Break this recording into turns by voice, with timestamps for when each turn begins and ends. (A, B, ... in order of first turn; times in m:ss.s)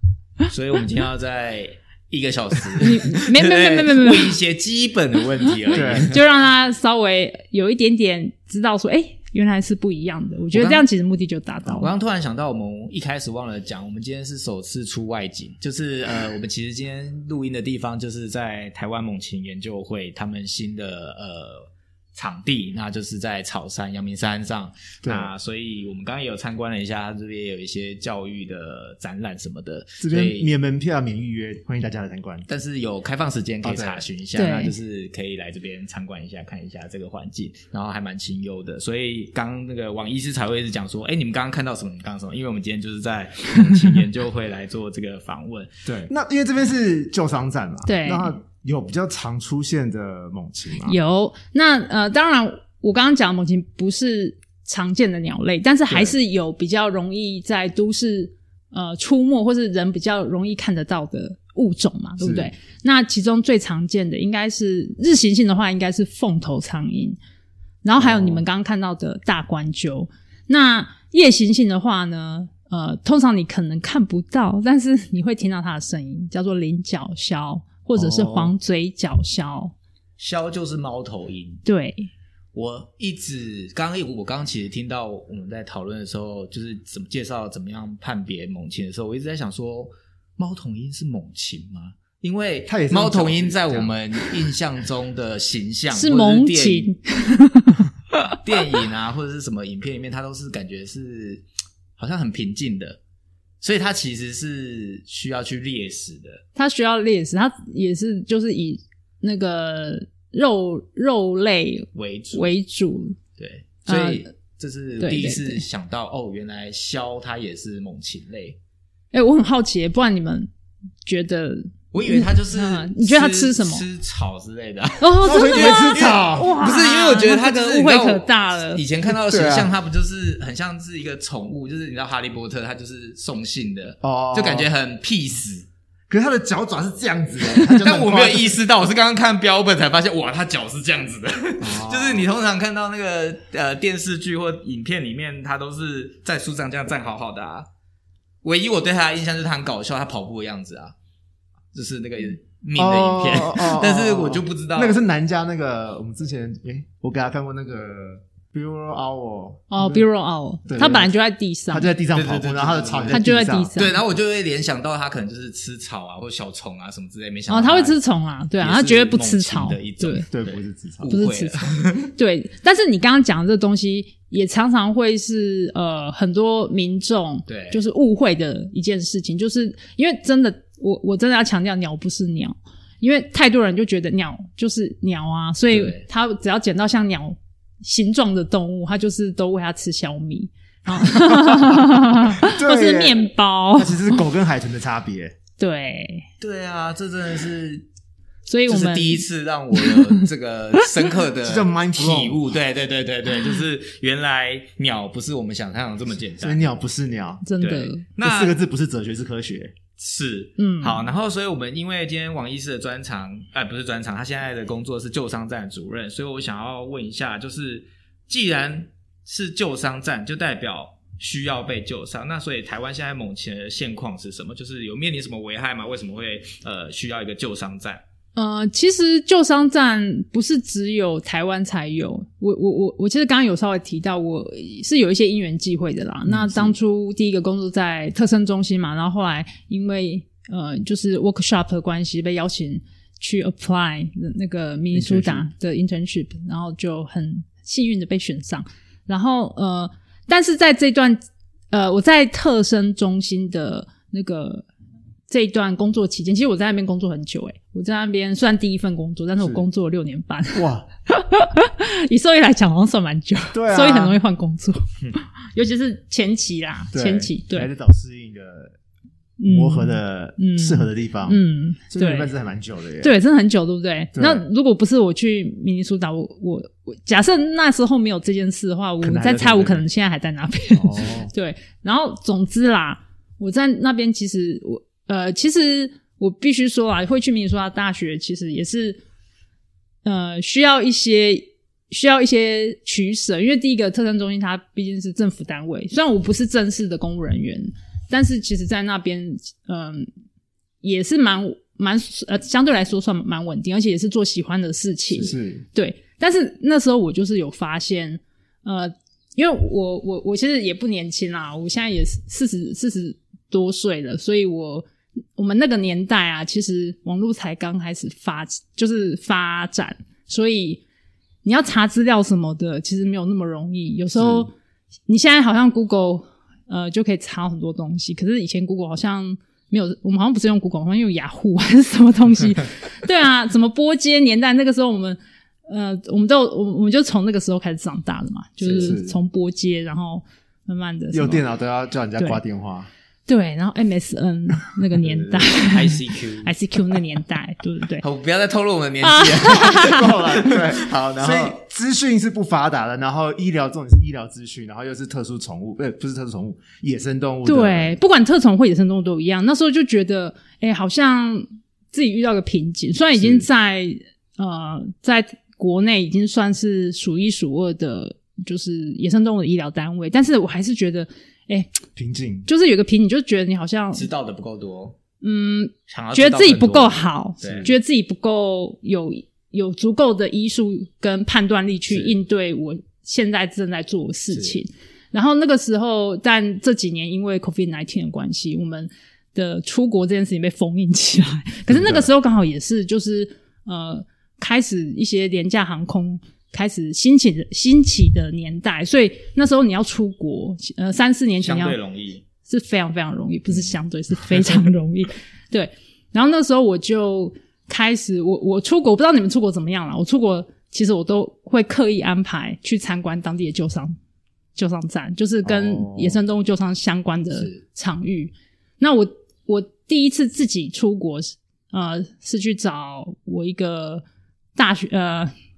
0:00.5-0:06.2 A
0:02.8-0:04.4 B
0:05.7-0:06.1 C
0:05.9-0:11.9 B
0:10.5-0:10.8 A
0:11.7-0:30.5 A
0:25.0-0:25.3 C
0:30.0-0:32.4 C
0:32.5-0:45.8 A
0:33.6-0:34.0 C
0:34.3-0:34.7 B
0:45.8-0:51.0 C
0:47.8-0:48.3 B
0:50.8-1:07.2 B
0:55.9-0:56.1 C
1:02.2-1:02.5 C
1:07.8-1:19.7 B
1:08.0-1:08.4 C
1:18.0-1:18.5 C
1:20.2-1:21.6 A
1:21.6-1:22.1 B
1:22.5-1:36.9 A
1:32.7-1:34.3 C
1:35.9-1:38.3 B
1:38.3-1:41.4 A
1:42.0-1:43.0 A
1:43.6-1:46.4 A
1:46.6-1:53.2 B
1:51.9-1:52.5 A
1:53.4-1:58.6 A
1:53.9-1:54.3 B
1:55.0-1:55.6 B
1:59.1-2:00.5 B
2:01.0-2:03.8 B
2:01.9-2:15.6 A
2:05.0-2:08.8 B
2:05.2-2:06.6 C
2:09.1-2:09.7 C
2:14.0-2:14.7 C
2:16.1-2:18.6 C
2:17.5-2:27.7 A
2:21.6-2:22.3 C
2:28.4-2:30.9 A
2:31.7-2:35.0 A
2:32.8-2:40.0 C
2:39.7-2:41.9 B
2:40.7-2:41.1 C
2:41.7-2:43.8 C
2:42.1-2:43.2 A
2:43.1-2:44.0 B
2:43.7-2:48.0 A
2:47.5-2:50.2 B
2:48.6-2:52.1 A
2:50.3-2:51.2 C
2:51.1-3:14.2 B
2:57.5-2:57.8 A
3:05.7-3:06.0 A
3:10.9-3:15.3 C
3:15.6-3:16.3 B
3:16.4-3:17.8 A
3:18.5-3:20.3 B
3:18.7-3:26.6 A
3:21.4-3:22.4 C
3:26.4-3:27.4 C
3:27.4-3:28.0 B
3:27.6-3:28.6 A
3:28.2-3:29.8 C
3:30.0-3:48.0 A
3:30.6-3:31.1 B
3:48.4-4:11.2 B
3:56.2-3:56.7 C
4:04.9-4:05.5 C
4:11.7-4:14.7 B
4:15.3-4:24.8 B
4:20.5-4:20.8 C
4:23.5-4:24.2 C
4:25.5-4:27.7 B
4:26.9-4:28.7 C
4:29.4-4:32.3 B
4:29.5-4:33.1 C
4:33.0-4:49.0 B
4:34.1-4:34.4 C
4:39.0-4:39.8 C
4:40.7-4:41.3 C
4:50.0-5:00.1 B
5:00.8-5:14.8 B
5:05.1-5:05.6 C
5:15.4-5:20.8 B
5:21.4-5:24.5 B
5:24.2-5:24.5 C
5:25.1-5:41.4 B
5:38.6-5:39.2 C
5:41.1-5:42.9 C
5:43.3-5:48.0 B
5:45.1-5:46.5 A
5:48.0-5:51.6 A
5:49.0-5:50.1 B
5:49.7-5:58.0 C
5:57.4-6:11.8 B
6:03.2-6:03.4 C
6:12.0-6:12.5 C
6:12.5-6:14.1 B
6:13.9-6:15.0 A
6:15.2-6:41.8 B
6:15.9-6:17.7 A
6:17.4-6:17.7 C
6:24.3-6:24.6 A
6:31.7-6:32.0 C
6:41.4-6:42.2 A
6:42.4-6:54.0 B
6:54.6-7:04.0 B
6:55.4-6:56.2 C
6:57.3-6:57.6 A
7:04.6-7:05.3 B